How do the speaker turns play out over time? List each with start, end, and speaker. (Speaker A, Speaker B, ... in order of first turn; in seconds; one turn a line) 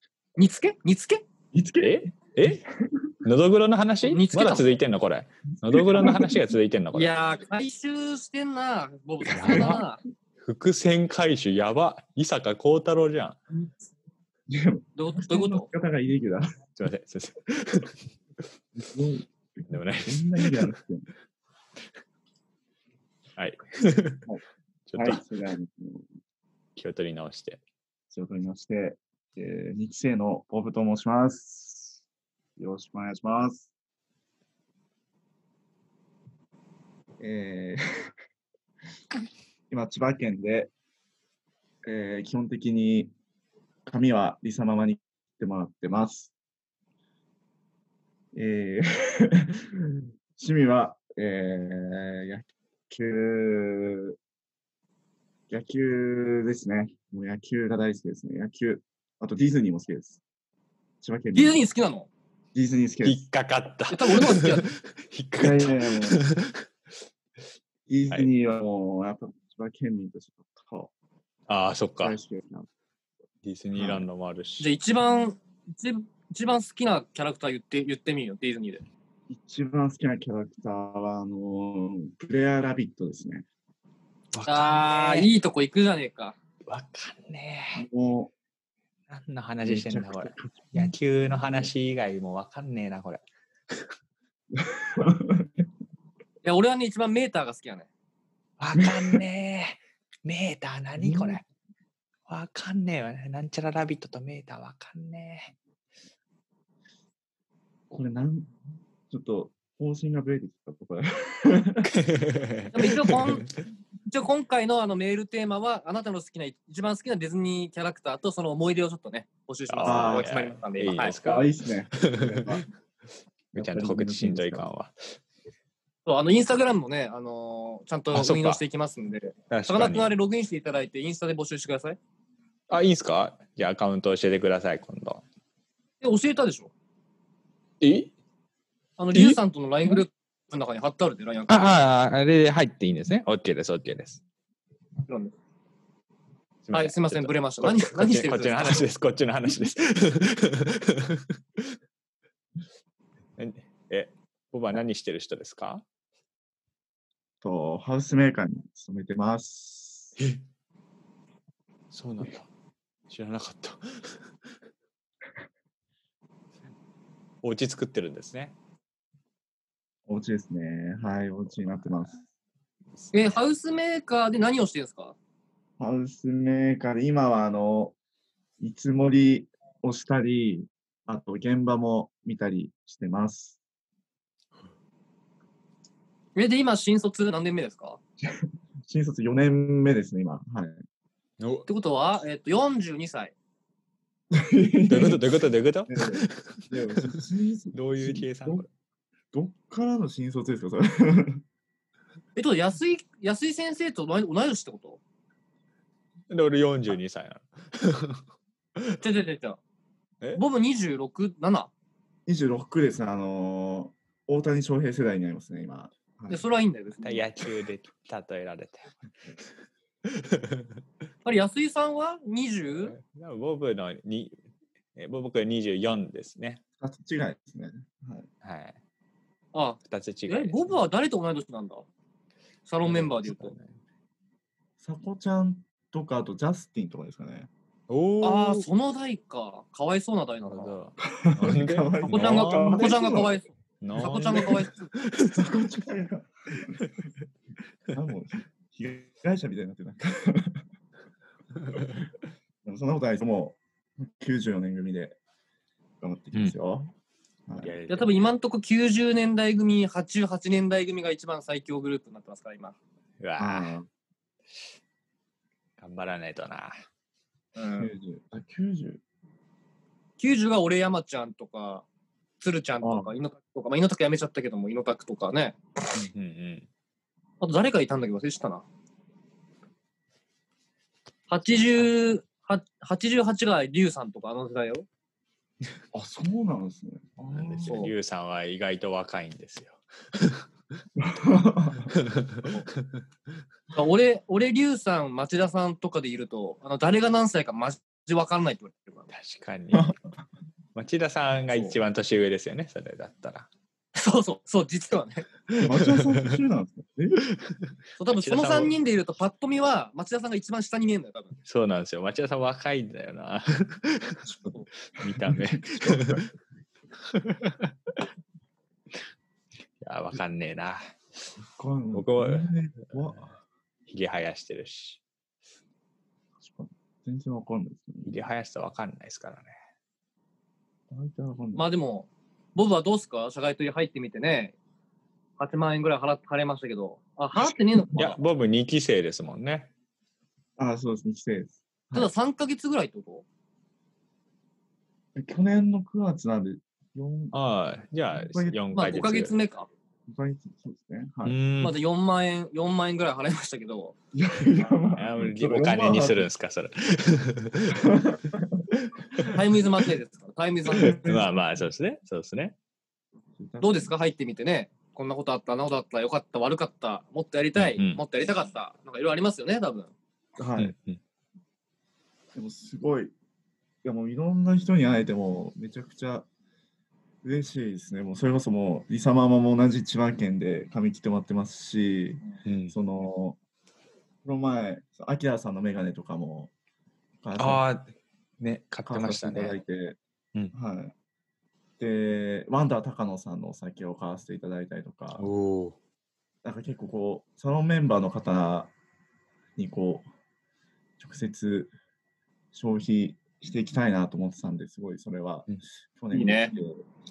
Speaker A: 0.4-1.2
Speaker B: 1.5-3.1
Speaker C: 1.8-2.6
Speaker C: 3.2-7.1
Speaker A: 4.0-4.7
Speaker B: 5.6-6.4
Speaker A: 6.9-10.0
Speaker C: 9.2-9.8
Speaker B: 9.4-9.8
Speaker C: 10.4-13.4
Speaker B: 14.5-16.4
Speaker A: 14.9-15.7
Speaker C: 16.8-17.9
Speaker B: 18.7-21.1
Speaker C: 19.7-20.7
Speaker C: 23.4-24.3
Speaker C: 24.9-25.2
Speaker B: 24.9-26.1
Speaker C: 26.8-27.6
Speaker B: 28.1-32.0
Speaker B: 32.6-33.7
Speaker B: 37.2-38.1
Speaker B: 39.7-40.7
Speaker B: 41.8-43.1
Speaker B: 43.9-46.3
Speaker B: 48.3-54.1
Speaker B: 55.5-60.2
Speaker B: 61.0-61.6
Speaker A: 61.3-62.1
Speaker B: 62.5-63.2
Speaker C: 63.0-66.6
Speaker A: 63.9-64.7
Speaker B: 65.4-66.2
Speaker B: 67.9-70.9
Speaker C: 71.5-72.2
Speaker B: 72.0-72.7
Speaker C: 73.4-74.7
Speaker B: 73.7-74.1
Speaker A: 74.6-78.8
Speaker B: 79.3-83.5
Speaker C: 84.3-85.3
Speaker A: 84.4-86.3
Speaker C: 86.7-87.8
Speaker B: 87.7-88.3
Speaker C: 89.1-93.8
Speaker B: 89.6-91.7
Speaker B: 94.5-95.5
Speaker A: 96.4-97.9
Speaker C: 98.6-101.4
Speaker B: 98.8-99.2
Speaker B: 101.0-101.4
Speaker C: 102.3-105.5
Speaker B: 107.9-108.5
Speaker B: 109.1-111.9
Speaker C: 111.8-113.5
Speaker A: 112.7-113.5
Speaker A: 114.1-121.2
Speaker C: 119.7-122.6
Speaker B: 119.8-120.3
Speaker B: 121.2-122.7
Speaker C: 123.5-125.2
Speaker B: 123.5-124.7
Speaker A: 126.0-132.0
Speaker C: 128.1-128.6
Speaker C: 129.5-130.1
Speaker C: 132.7-135.2
Speaker A: 136.0-136.7
Speaker C: 137.8-138.1
Speaker A: 139.0-141.8
Speaker C: 139.1-140.0
Speaker C: 141.5-144.2
Speaker A: 145.1-145.3
Speaker C: 146.6-151.7
Speaker A: 146.7-148.8
Speaker C: 153.4-155.8
Speaker B: 157.4-160.2
Speaker C: 161.9-162.5
Speaker C: 163.1-164.2
Speaker C: 167.4-168.5
Speaker B: 170.1-172.2
Speaker C: 171.7-172.1
Speaker C: 173.0-173.3
Speaker A: 173.1-175.1
Speaker B: 175.8-177.9
Speaker B: 178.6-183.6
Speaker A: 186.3-188.0
Speaker B: 188.2-190.8
Speaker C: 191.4-191.7
Speaker A: 191.7-193.3
Speaker B: 194.3-195.2
Speaker C: 194.9-197.2
Speaker B: 195.9-198.7
Speaker C: 197.7-198.7
Speaker B: 199.3-201.4
Speaker A: 202.3-205.0
Speaker C: 206.3-208.2
Speaker A: 209.0-209.6
Speaker A: 210.3-211.7
Speaker B: 212.2-216.4
Speaker A: 216.3-217.2
Speaker C: 217.0-219.1
Speaker C: 220.1-220.7
Speaker A: 221.2-222.9
Speaker C: 222.7-224.4
Speaker C: 224.9-226.6
Speaker B: 226.8-228.3
Speaker C: 228.4-228.8
Speaker A: 229.5-231.9
Speaker C: 229.8-230.8
Speaker A: 232.7-233.5
Speaker C: 232.8-233.7
Speaker B: 234.8-237.5
Speaker C: 237.9-238.7
Speaker A: 238.2-240.8
Speaker C: 240.4-243.0
Speaker B: 241.0-243.4
Speaker A: 242.0-244.9
Speaker C: 243.8-245.5
Speaker B: 245.3-246.9
Speaker B: 247.9-250.6
Speaker B: 252.6-255.2
Speaker B: 256.0-256.9
Speaker B: 257.4-257.8
Speaker C: 257.6-258.3
Speaker A: 257.9-262.8
Speaker C: 263.2-263.8
Speaker B: 263.4-263.9
Speaker C: 265.8-266.7
Speaker A: 267.6-267.9
Speaker B: 267.7-269.0
Speaker A: 270.2-271.9
Speaker A: 272.4-275.6
Speaker B: 272.8-273.1
Speaker C: 275.9-276.7
Speaker A: 277.4-278.6
Speaker A: 281.3-284.9
Speaker C: 281.6-281.9
Speaker B: 285.9-287.8
Speaker C: 287.3-290.4
Speaker A: 287.6-287.9
Speaker B: 291.0-291.9
Speaker C: 292.0-292.8
Speaker A: 293.7-299.1
Speaker C: 299.1-299.9
Speaker C: 300.7-303.5
Speaker A: 301.5-301.8
Speaker A: 303.9-305.3
Speaker C: 305.5-306.4
Speaker B: 305.6-307.3
Speaker C: 307.2-308.8
Speaker A: 308.0-311.3
Speaker C: 311.4-314.2
Speaker C: 315.0-316.3
Speaker B: 315.0-316.2
Speaker C: 317.1-317.7
Speaker C: 319.8-320.8
Speaker B: 321.4-323.3
Speaker C: 321.9-322.5
Speaker C: 323.9-325.0
Speaker B: 326.4-328.1
Speaker C: 328.0-329.5
Speaker B: 330.9-331.6
Speaker A: 331.6-334.5
Speaker A: 335.4-338.2
Speaker C: 337.9-339.7
Speaker B: 340.6-342.1
Speaker A: 341.9-343.2
Speaker B: 345.1-347.4
Speaker C: 347.3-349.3
Speaker B: 348.1-348.6
Speaker A: 348.7-349.7
Speaker B: 350.1-351.4
Speaker C: 351.2-351.8
Speaker A: 351.6-353.9
Speaker B: 354.1-356.3
Speaker C: 354.9-357.9
Speaker B: 357.7-358.7
Speaker C: 358.9-359.4
Speaker A: 359.2-361.0
Speaker B: 360.7-361.3
Speaker C: 360.8-362.5
Speaker B: 363.4-363.9
Speaker A: 363.6-369.9
Speaker C: 367.6-368.0
Speaker B: 370.4-370.7
Speaker C: 370.6-371.0
Speaker B: 372.3-373.1
Speaker B: 373.8-376.3
Speaker B: 377.2-383.4
Speaker C: 382.4-382.7
Speaker B: 384.2-386.5
Speaker B: 387.2-387.6
Speaker C: 387.4-389.6
Speaker B: 388.9-390.0
Speaker B: 390.5-390.9
Speaker B: 391.8-395.2
Speaker C: 395.2-395.8
Speaker B: 396.4-398.7
Speaker B: 399.6-400.1
Speaker B: 401.0-401.7
Speaker B: 402.5-406.8
Speaker A: 406.1-406.5